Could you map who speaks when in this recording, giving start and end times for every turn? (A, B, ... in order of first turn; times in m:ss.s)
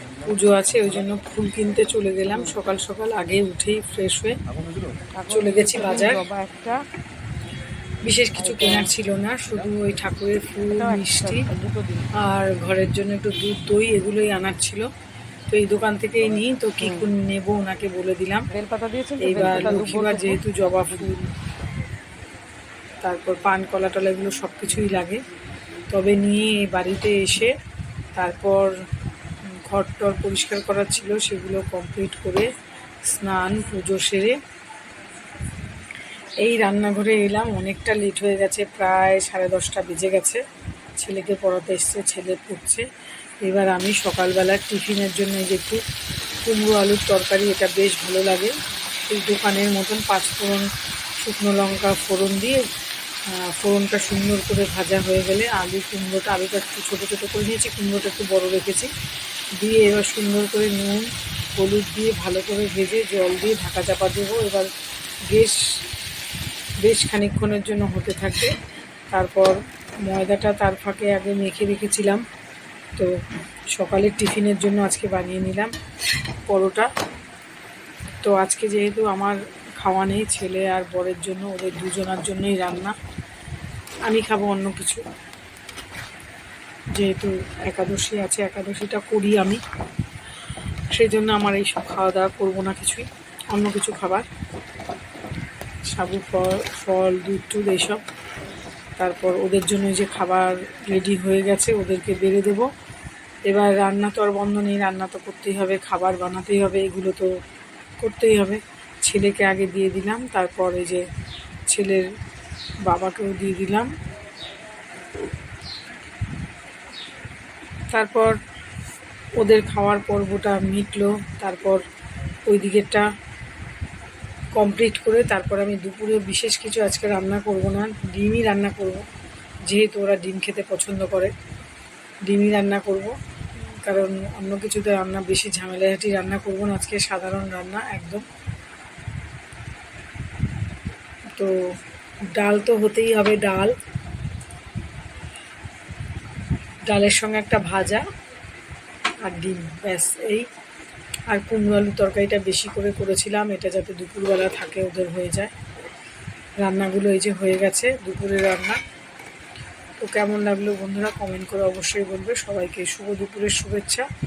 0:00.2-0:04.4 A
0:02.2-0:02.6 B
0:05.2-0:06.8 B
0:05.3-0:06.2 A
0:08.0-0:11.4 A
0:08.3-0:08.9 B
0:10.7-0:12.1 B
0:12.1-0:14.9 A
0:15.5-0:18.5 A
0:16.8-0:17.1 B
0:18.5-0:20.4 B
0:19.2-0:21.3 A
0:23.0-0:25.2 A
0:25.9-0:27.5 A
0:28.2-0:28.7 A
0:29.6-0:32.5 A
0:33.0-0:34.4 A
0:36.4-0:40.4 A
0:41.0-0:42.9 A
0:43.4-0:45.8 A
0:46.4-0:52.6 A
0:53.3-0:58.9 A
0:59.6-1:04.7 A
1:05.3-1:05.6 A
1:06.8-1:08.6 A
1:09.1-1:12.2 A
1:13.7-1:15.7 A
1:16.5-1:16.9 A
1:18.2-1:23.0 A
1:24.0-1:25.0 A
1:26.9-1:29.6 A
1:30.9-1:34.2 A
1:35.9-1:38.0 A
1:39.0-1:42.7 A
1:43.5-1:47.3 A
1:48.0-1:51.0 A
1:51.7-1:52.1 A
1:52.8-1:53.9 A
1:57.9-1:58.4 A
1:59.4-2:01.8 A
2:02.5-2:03.1 A
2:04.5-2:09.0 A
2:09.7-2:11.3 A
2:12.3-2:18.2 A
2:22.3-2:23.7 A
2:26.9-2:28.0 A
2:29.2-2:30.5 A
2:31.3-2:35.5 A
2:36.6-2:38.8 A
2:40.0-2:44.1 A